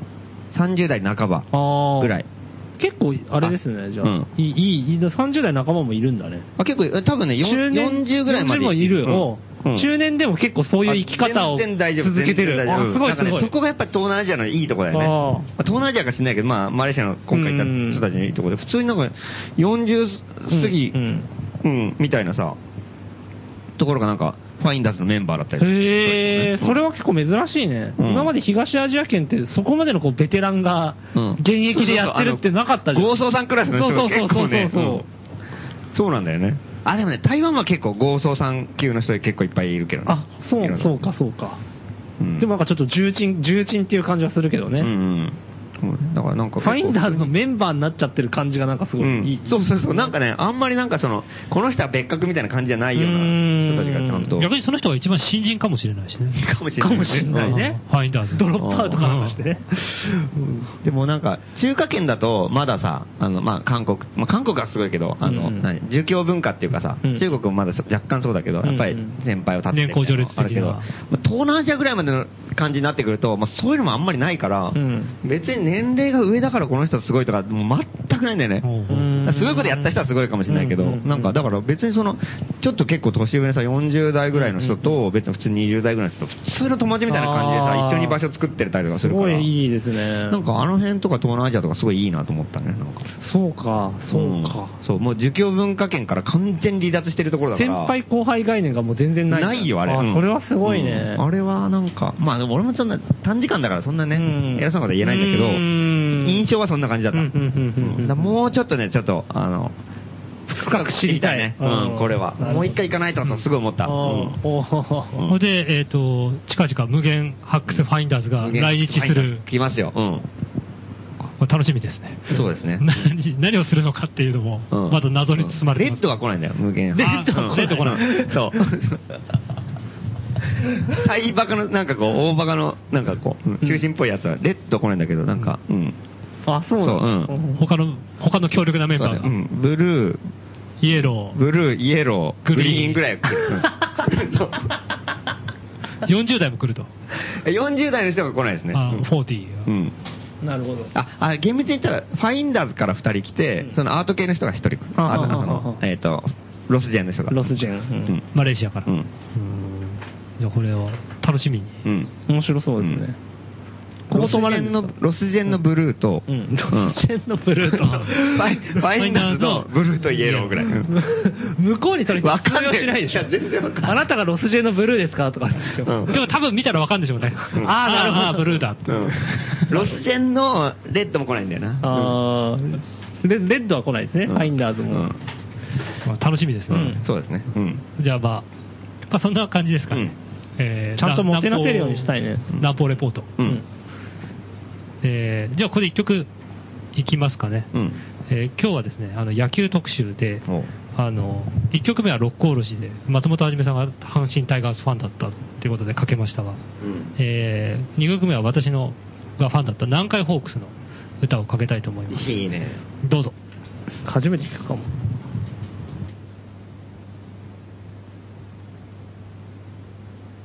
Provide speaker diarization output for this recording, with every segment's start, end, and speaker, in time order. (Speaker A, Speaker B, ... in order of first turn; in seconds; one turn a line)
Speaker A: 0.5-2.3
Speaker B: 1.5-2.2
Speaker B: 2.8-6.5
Speaker A: 3.4-4.3
Speaker A: 6.6-9.9
Speaker B: 7.4-13.5
Speaker A: 10.8-21.0
Speaker B: 14.9-15.5
Speaker B: 17.3-18.0
Speaker B: 20.5-21.3
Speaker A: 21.6-22.6
Speaker A: 23.8-26.8
Speaker B: 25.6-35.0
Speaker A: 28.0-28.3
Speaker A: 31.1-35.0
Speaker A: 35.9-41.0
Speaker B: 40.0-41.6
Speaker A: 42.2-42.5
Speaker B: 42.4-44.9
Speaker A: 44.8-47.3
Speaker B: 46.6-50.1
Speaker A: 49.0-54.5
Speaker B: 52.9-54.3
Speaker C: 54.4-56.5
Speaker A: 56.4-57.6
Speaker B: 56.8-57.8
Speaker C: 57.3-59.4
Speaker B: 58.3-60.6
Speaker A: 58.6-59.0
Speaker A: 60.8-78.7
Speaker B: 65.2-65.7
Speaker B: 68.6-69.2
Speaker C: 69.7-70.9
Speaker B: 74.7-75.1
Speaker C: 78.6-79.1
Speaker B: 78.9-81.3
Speaker A: 79.2-89.5
Speaker B: 84.3-84.9
Speaker B: 87.1-88.2
Speaker B: 88.9-90.4
Speaker A: 90.3-93.1
Speaker B: 93.2-94.7
Speaker A: 94.1-97.9
Speaker B: 97.5-101.2
Speaker A: 99.3-109.7
Speaker B: 104.1-106.5
Speaker B: 107.1-108.3
Speaker B: 110.5-112.8
Speaker A: 110.5-114.4
Speaker B: 113.8-115.2
Speaker A: 115.1-115.4
Speaker C: 115.3-119.4
Speaker A: 118.4-120.2
Speaker C: 121.4-126.1
Speaker A: 122.3-123.0
Speaker A: 124.7-129.0
Speaker B: 126.9-128.6
Speaker C: 127.0-128.2
Speaker A: 130.8-136.0
Speaker B: 136.5-137.6
Speaker A: 136.8-137.3
Speaker C: 137.6-139.3
Speaker A: 138.9-140.2
Speaker C: 140.8-141.4
Speaker A: 141.0-144.7
Speaker C: 142.4-143.5
Speaker C: 146.0-146.9
Speaker A: 147.2-149.1
Speaker C: 148.7-149.7
Speaker A: 149.7-149.9
Speaker B: 150.4-150.9
Speaker A: 150.9-157.4
Speaker B: 155.0-155.8
Speaker B: 157.3-158.2
Speaker C: 158.3-161.7
Speaker A: 161.8-162.1
Speaker B: 162.3-163.2
Speaker B: 164.1-164.9
Speaker A: 164.1-167.0
Speaker B: 166.3-168.5
Speaker A: 167.7-171.1
Speaker C: 167.8-168.1
Speaker C: 168.9-170.6
Speaker B: 170.9-176.1
Speaker A: 172.1-174.0
Speaker A: 175.8-176.2
Speaker C: 176.1-179.8
Speaker B: 177.6-178.7
Speaker A: 178.8-182.2
Speaker B: 181.8-185.1
Speaker A: 184.2-185.2
Speaker C: 186.0-187.0
Speaker B: 186.7-187.0
Speaker A: 186.7-187.8
Speaker C: 188.0-188.4
Speaker C: 189.1-193.3
Speaker B: 191.0-192.5
Speaker C: 195.0-196.3
Speaker C: 196.9-197.7
Speaker A: 197.7-198.0
Speaker C: 198.3-206.6
Speaker A: 206.8-207.1
Speaker C: 207.2-212.4
Speaker A: 212.1-212.8
Speaker C: 213.0-213.3
Speaker B: 214.0-214.9